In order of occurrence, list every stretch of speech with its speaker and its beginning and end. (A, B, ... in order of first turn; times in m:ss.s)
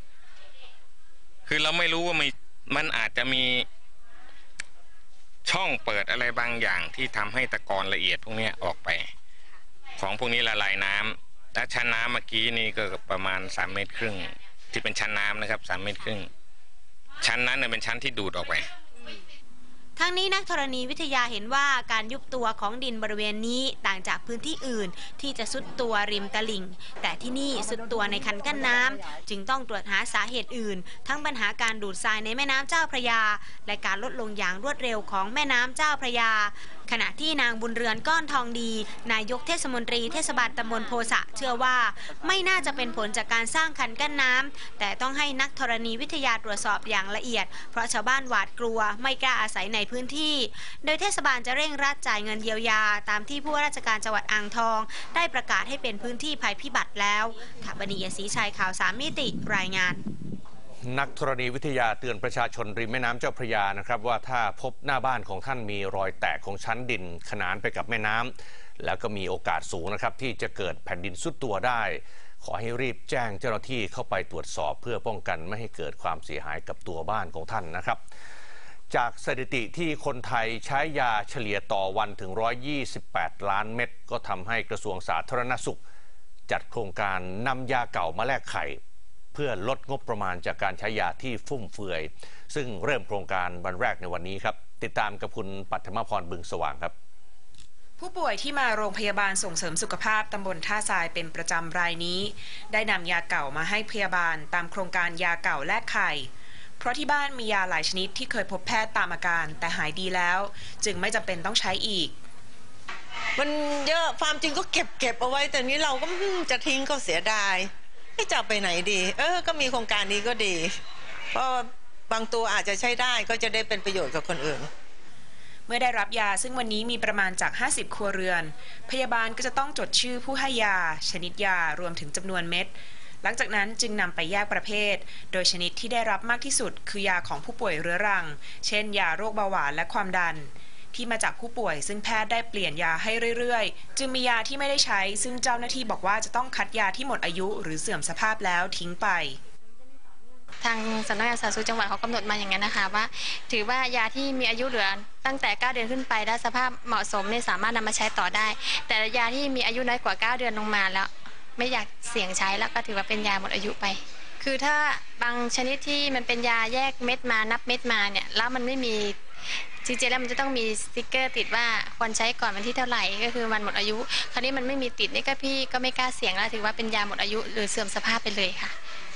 0:01.5-0:03.6 A
0:05.5-0:09.0 A
0:10.0-0:14.2 A
0:14.7-0:16.2 A
0:17.2-0:18.6 A
0:20.0-1:00.0 B
1:00.8-1:18.0 C
1:18.9-1:25.8 C
1:26.5-1:28.8 C
1:29.3-1:36.9 C
1:38.0-1:52.2 D
1:53.4-2:00.8 E
2:01.3-2:04.7 E
2:05.7-2:29.4 D
2:30.6-2:58.7 F